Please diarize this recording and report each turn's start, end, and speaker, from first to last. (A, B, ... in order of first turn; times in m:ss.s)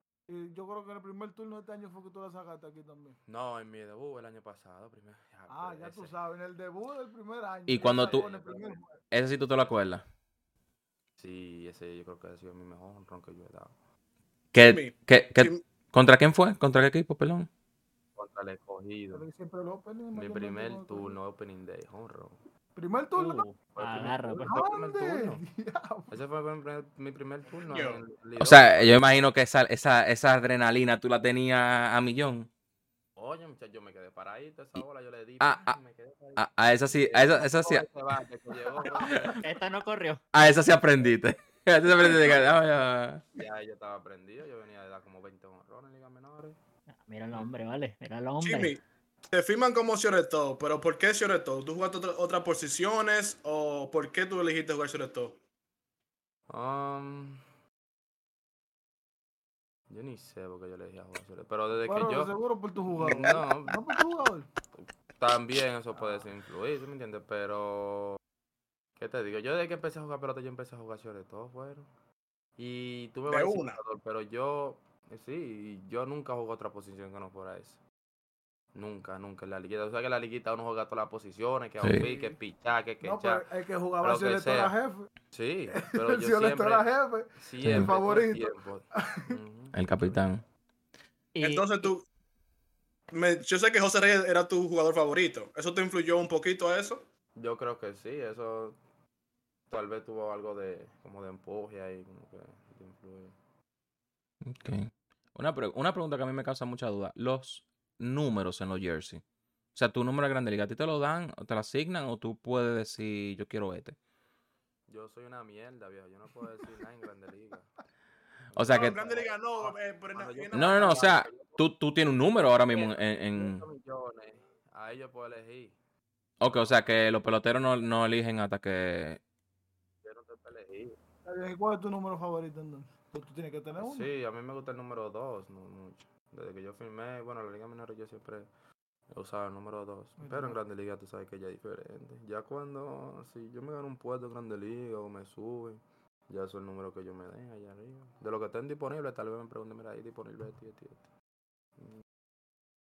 0:00.3-0:03.2 A
0:03.3-0:06.2 B
0:05.5-0:09.0 A
0:07.7-0:08.3 C
0:07.8-0:08.8 B
0:09.1-0:10.0 C
0:11.2-0:13.8 B
0:14.5-0:17.5 C
0:14.6-0:15.6 D
0:18.2-0:19.2 B
0:19.1-0:21.2 A
0:20.1-0:22.4 B
0:22.8-0:23.4 A
0:23.2-0:24.6 E
0:23.8-0:25.4 B
0:24.4-0:26.1 A
0:26.1-0:29.0 B
0:27.7-0:28.0 D
0:28.4-0:32.5 C
0:33.2-0:39.4 B
0:35.4-0:35.8 C
0:36.4-0:37.8 C
0:39.0-0:39.4 C
0:39.4-0:40.2 E
0:40.3-0:43.2 C
0:41.9-0:42.6 B
0:43.4-0:46.6 B
0:47.0-0:48.8 E
0:48.4-0:55.4 D
0:56.5-0:57.4 B
0:59.9-1:02.4 B
1:01.8-1:04.5 A
1:02.9-1:03.8 B
1:04.7-1:08.2 B
1:09.0-1:11.9 B
1:12.6-1:17.8 B
1:13.3-1:13.8 D
1:18.7-1:23.4 B
1:22.0-1:22.4 A
1:23.0-1:25.1 A
1:24.0-1:24.7 B
1:25.3-1:30.2 B
1:25.7-1:29.4 A
1:27.6-1:27.9 C
1:29.7-1:30.4 C
1:31.4-1:31.9 E
1:31.4-1:32.1 D
1:33.1-1:37.0 D
1:37.4-1:38.8 B
1:39.7-1:43.4 B
1:44.5-1:49.2 C
1:49.8-1:54.0 C
1:54.9-1:57.7 B
1:58.5-2:01.6 B
1:58.6-1:59.0 C
1:58.7-2:01.1 D
2:00.5-2:03.6 C
2:02.7-2:05.8 B
2:06.4-2:09.2 C
2:06.5-2:06.9 B
2:10.0-2:11.0 B
2:11.2-2:14.1 A
2:13.8-2:18.5 B
2:19.1-2:31.1 B
2:20.2-2:20.6 A